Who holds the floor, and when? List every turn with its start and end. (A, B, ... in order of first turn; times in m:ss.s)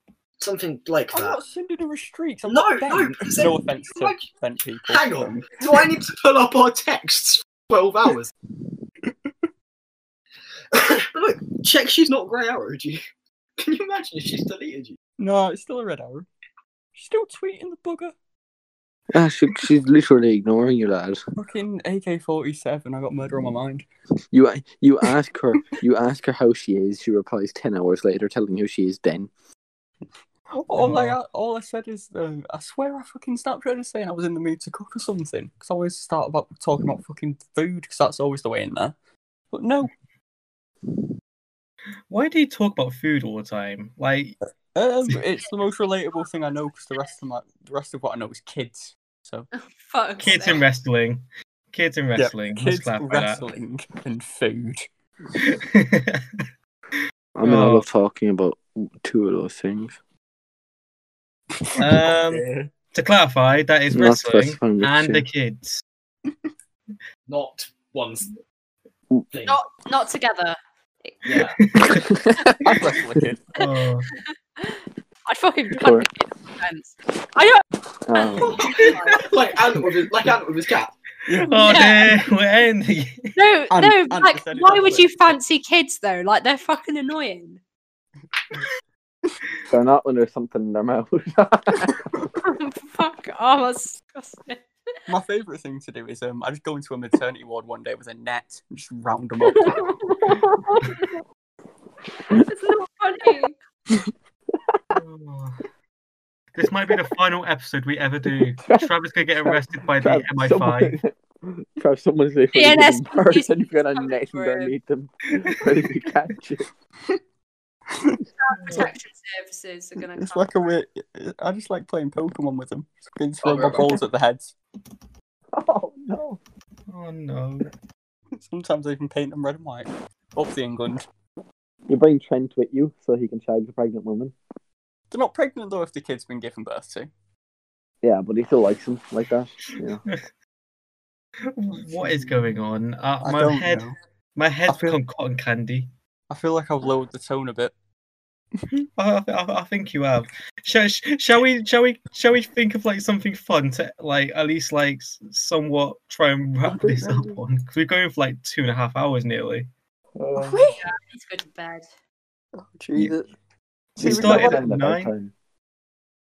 0:00.4-0:01.4 A
0:01.1-0:05.8 B
0:02.5-0:04.3 A
0:04.9-0:08.3 A
0:10.7-0:13.0 A
0:13.6-0:15.0 A
0:15.2-0:16.3 B
0:17.0-0:18.1 B
0:19.1-0:21.2 C
0:21.4-0:23.9 B
0:24.3-0:29.3 C
0:30.6-0:39.0 B
0:30.8-0:31.2 D
0:39.5-0:39.9 B
0:42.1-0:44.4 D
0:44.7-0:49.5 B
0:49.5-0:50.6 E
0:50.2-0:53.5 D
0:52.2-0:54.9 B
0:55.4-0:56.5 D
0:57.4-1:00.0 C
0:57.4-0:57.9 D
1:01.6-1:02.7 B
1:01.8-1:05.8 D
1:03.9-1:05.2 C
1:07.3-1:08.3 A
1:09.3-1:09.6 A
1:09.4-1:11.6 E
1:11.3-1:12.1 D
1:11.9-1:13.0 C
1:12.6-1:13.5 B
1:13.6-1:14.1 D
1:13.6-1:19.3 E
1:15.8-1:16.1 C
1:18.1-1:18.7 C
1:18.4-1:20.9 A
1:21.3-1:21.6 B
1:21.4-1:23.3 D
1:21.5-1:22.2 E
1:23.4-1:27.6 E
1:23.7-1:25.2 B
1:29.7-1:32.0 C
1:32.4-1:34.6 E
1:35.1-1:40.1 B
1:39.5-1:41.2 E
1:42.3-1:43.6 E
1:44.9-1:45.6 D
1:46.6-1:51.0 D
1:48.3-1:56.7 C
1:52.5-1:54.7 E
1:55.4-1:55.6 D
1:57.9-1:58.9 B
1:58.4-2:00.8 E
1:58.6-1:58.9 D
2:00.2-2:04.6 B
2:03.4-2:04.0 A
2:05.5-2:06.4 C
2:06.9-2:07.7 D
2:08.4-2:11.0 B
2:11.9-2:14.4 C
2:15.1-2:17.1 B
2:18.0-2:20.0 C
2:21.5-2:25.9 D
2:22.0-2:22.4 B
2:23.2-2:24.0 B
2:24.7-2:25.0 B
2:26.3-2:27.7 B
2:28.7-2:39.7 D
2:36.6-2:37.4 B
2:40.2-2:40.6 C
2:40.4-2:40.8 B
2:40.8-2:41.9 E
2:42.6-2:43.3 B
2:44.0-2:45.1 D
2:44.0-2:44.7 B
2:44.0-2:45.3 C